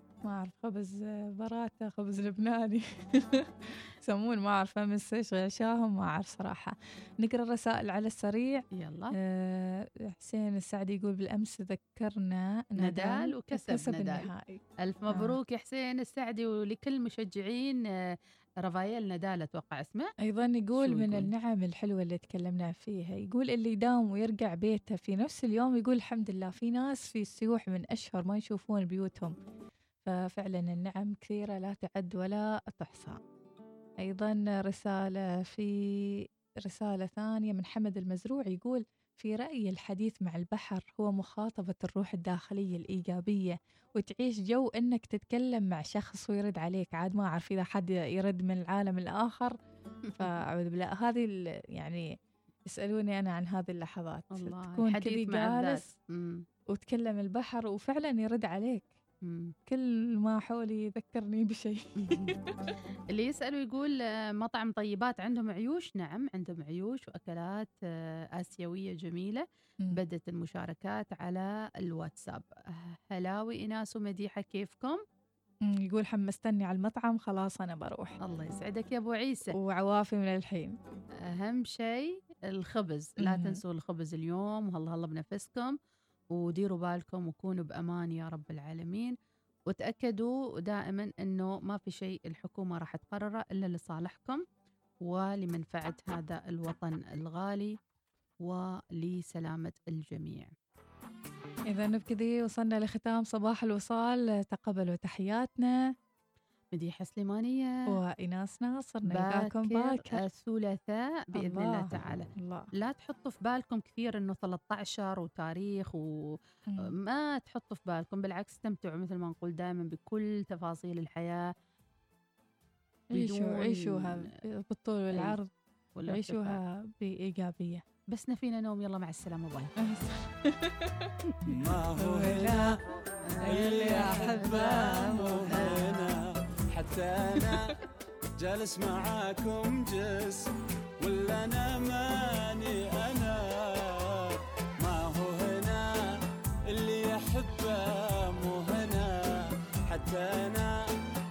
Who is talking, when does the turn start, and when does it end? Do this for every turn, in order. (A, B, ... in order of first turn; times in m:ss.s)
0:00.2-0:08.6 A
0:08.7-0:09.1 B
0:09.2-0:15.4 A
0:12.8-0:14.2 B
0:14.8-0:20.1 B
0:20.2-0:29.3 A
0:20.8-0:21.3 B
0:30.0-0:33.2 A
0:34.0-0:49.6 A
0:50.2-0:52.1 A
0:52.7-0:55.9 A
0:54.3-0:56.4 B
0:56.7-0:58.9 A
0:59.2-0:59.5 B
0:59.7-1:02.7 A
1:02.0-1:02.3 B
1:03.1-1:15.0 B
1:15.6-1:18.2 A
1:18.2-1:19.5 B
1:19.5-1:20.8 A
1:21.2-1:25.8 B
1:23.2-1:23.6 A
1:26.3-1:29.1 B
1:29.7-1:34.4 B
1:35.0-1:37.8 B
1:38.4-1:40.5 B
1:41.7-1:45.9 A
1:46.7-1:47.8 B
1:47.9-1:50.2 A
1:49.1-2:01.5 B
1:51.3-1:52.7 A
2:03.1-2:04.3 B
2:03.1-2:05.5 A
2:06.0-2:06.6 B
2:06.1-2:07.8 A
2:08.1-2:09.7 B
2:09.8-2:12.8 A
2:11.4-2:12.8 C
2:13.2-2:14.8 B
2:13.4-2:15.6 A
2:13.4-2:17.7 C
2:15.5-2:16.0 B
2:18.4-2:30.9 C